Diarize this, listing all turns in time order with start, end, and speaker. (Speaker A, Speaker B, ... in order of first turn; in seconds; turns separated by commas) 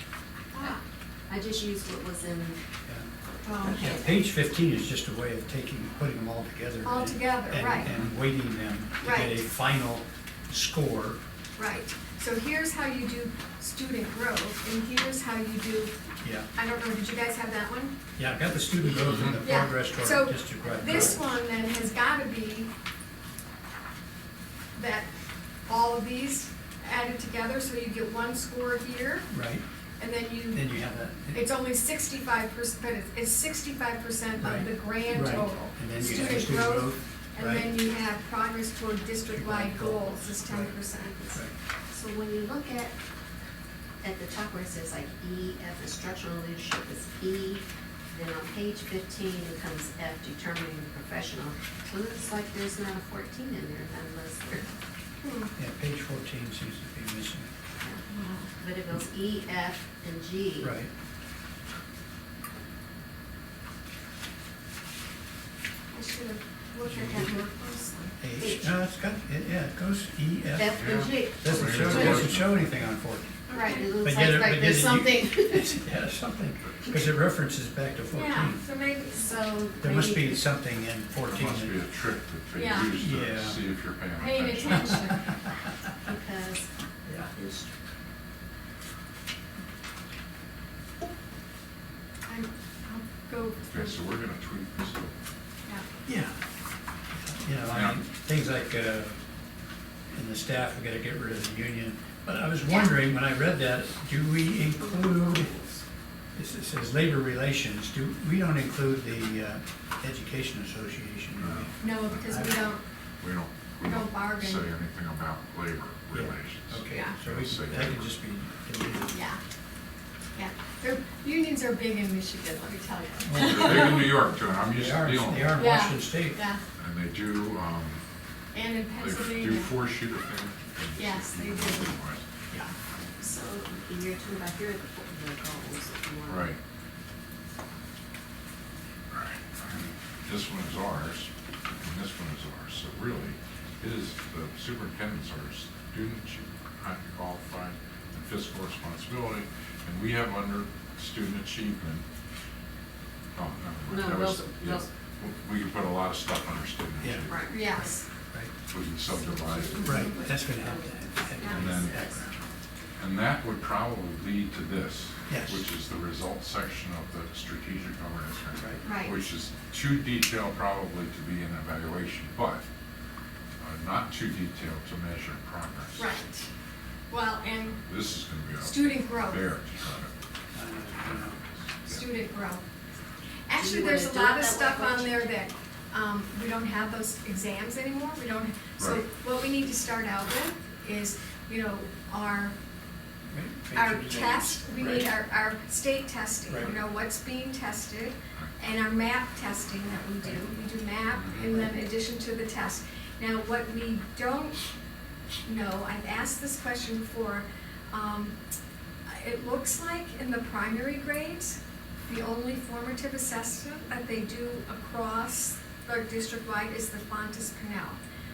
Speaker A: 0.4-0.8, Speaker B: 1.3-2.6, Speaker A: 3.4-4.1, Speaker C: 3.6-11.2, Speaker A: 6.8-7.9, Speaker A: 9.0-9.4, Speaker A: 11.6-15.9, Speaker C: 16.2-16.5, Speaker A: 16.5-17.9, Speaker C: 18.2-21.2, Speaker D: 19.0-19.4, Speaker A: 19.4-22.7, Speaker A: 24.7-25.1, Speaker A: 25.7-29.2, Speaker C: 29.3-29.6, Speaker A: 30.0-30.6, Speaker C: 30.5-31.5, Speaker A: 31.3-41.3, Speaker C: 34.4-37.7, Speaker C: 39.3-40.8, Speaker B: 41.9-43.0, Speaker B: 44.0-54.7, Speaker A: 55.2-55.5, Speaker C: 55.5-57.5, Speaker A: 58.1-58.5, Speaker B: 58.6-60.8, Speaker C: 60.6-60.9, Speaker A: 65.9-68.1, Speaker C: 66.8-67.3, Speaker C: 68.2-78.6, Speaker B: 68.4-68.7, Speaker B: 70.5-72.4, Speaker D: 70.7-72.9, Speaker A: 73.5-73.9, Speaker B: 73.5-75.8, Speaker D: 76.6-77.0, Speaker A: 78.1-79.4, Speaker B: 79.1-80.5, Speaker C: 79.8-81.7, Speaker D: 81.2-85.0, Speaker A: 82.5-82.9, Speaker C: 83.0-83.6, Speaker A: 84.2-85.4, Speaker C: 84.7-85.3, Speaker B: 86.0-87.7, Speaker A: 92.3-94.0, Speaker D: 93.6-95.1, Speaker C: 96.0-96.3, Speaker C: 97.1-99.2, Speaker D: 97.7-98.0, Speaker C: 100.1-105.5, Speaker A: 102.7-102.9, Speaker B: 104.6-105.8, Speaker C: 106.3-112.6, Speaker D: 111.4-112.4, Speaker A: 111.8-112.8, Speaker D: 113.2-118.0, Speaker A: 113.8-114.7, Speaker C: 116.1-119.2, Speaker A: 116.9-117.2, Speaker A: 119.1-119.4, Speaker A: 120.3-124.1, Speaker C: 123.2-124.1, Speaker D: 123.3-125.7, Speaker C: 124.7-126.4, Speaker A: 125.5-126.6, Speaker D: 126.8-128.0, Speaker A: 128.5-129.7, Speaker D: 128.9-132.2, Speaker A: 130.9-131.9, Speaker B: 133.2-136.5, Speaker D: 136.3-136.6, Speaker D: 139.1-152.0, Speaker D: 153.3-157.6, Speaker B: 153.9-154.9, Speaker C: 157.0-158.5, Speaker B: 157.3-157.9, Speaker A: 157.5-157.9, Speaker D: 158.7-160.1, Speaker B: 159.1-162.5, Speaker C: 159.8-162.3, Speaker D: 161.4-162.0, Speaker D: 163.0-172.6, Speaker C: 165.3-165.6, Speaker C: 168.6-168.8, Speaker A: 168.8-169.2, Speaker D: 173.6-176.1, Speaker A: 176.0-176.5, Speaker A: 177.1-177.8, Speaker D: 177.8-180.1, Speaker A: 178.6-179.5, Speaker C: 180.5-181.4, Speaker D: 181.2-182.0, Speaker A: 181.9-182.6, Speaker A: 183.5-192.5, Speaker B: 183.6-185.4, Speaker D: 188.8-189.0, Speaker C: 193.3-195.1, Speaker A: 193.7-204.6, Speaker C: 196.5-196.8, Speaker D: 201.1-201.5, Speaker A: 205.4-208.3, Speaker A: 209.1-218.0